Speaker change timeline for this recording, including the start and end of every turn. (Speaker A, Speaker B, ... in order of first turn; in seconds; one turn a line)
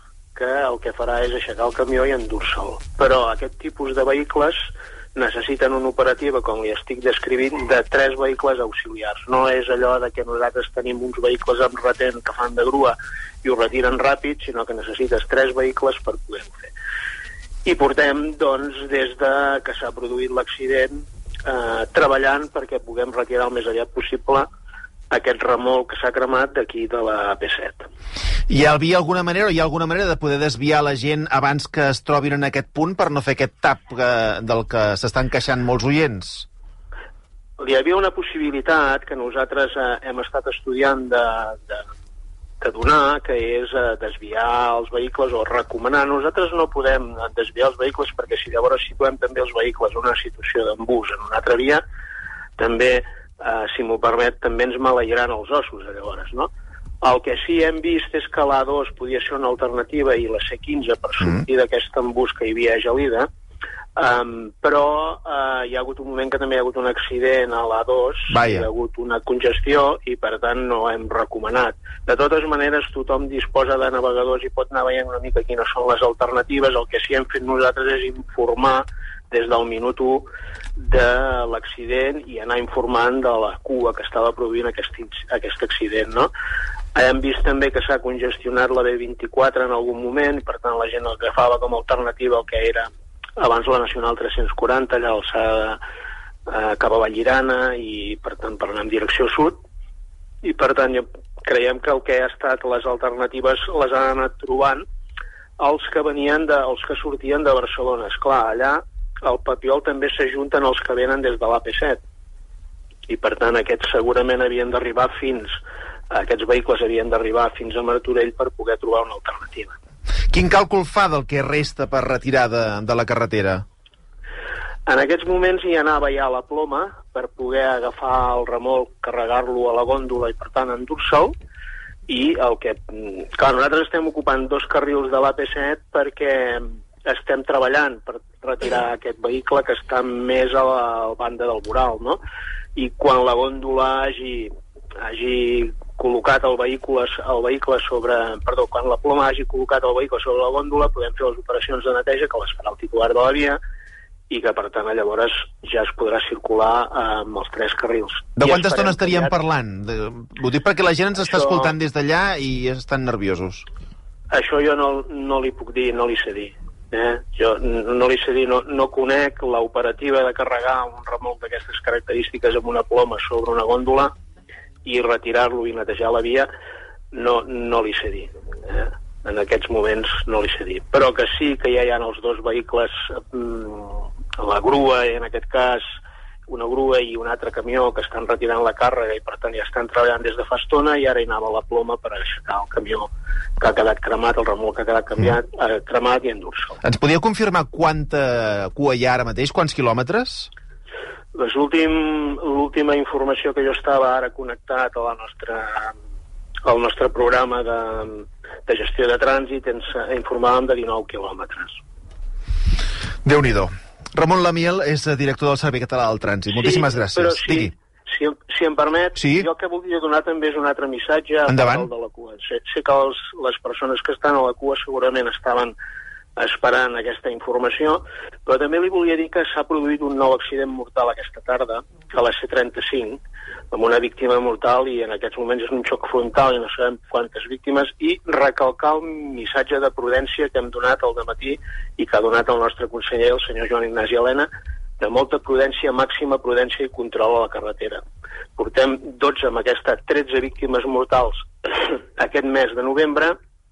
Speaker A: 0.3-4.6
Speaker A: 5.1-16.7
Speaker A: 17.6-24.5
Speaker A: 25.1-27.9
Speaker B: 28.5-36.5
Speaker A: 37.6-41.8
Speaker A: 42.6-51.8
Speaker A: 52.6-56.5
Speaker A: 57.0-63.3
Speaker A: 64.0-86.3
Speaker B: 68.3-68.7
Speaker A: 86.9-95.8
Speaker A: 96.5-99.6
Speaker A: 100.4-104.8
Speaker A: 105.6-112.0
Speaker A: 113.1-115.5
Speaker A: 116.1-119.8
Speaker B: 120.3-123.6
Speaker A: 124.9-131.3
Speaker A: 132.1-142.2
Speaker A: 142.8-153.6
Speaker A: 154.3-159.3
Speaker B: 158.4-163.6
Speaker A: 161.2-161.7
Speaker A: 164.3-174.1
Speaker A: 174.8-176.5
Speaker A: 177.1-185.8
Speaker A: 186.5-196.8
Speaker B: 196.8-200.5
Speaker A: 201.3-205.9
Speaker A: 206.6-211.7
Speaker B: 213.2-217.7
Speaker A: 216.5-225.7
Speaker B: 219.2-219.5
Speaker B: 221.5-221.9
Speaker A: 226.4-233.2
Speaker A: 233.7-244.5
Speaker A: 245.0-248.0
Speaker A: 248.6-253.4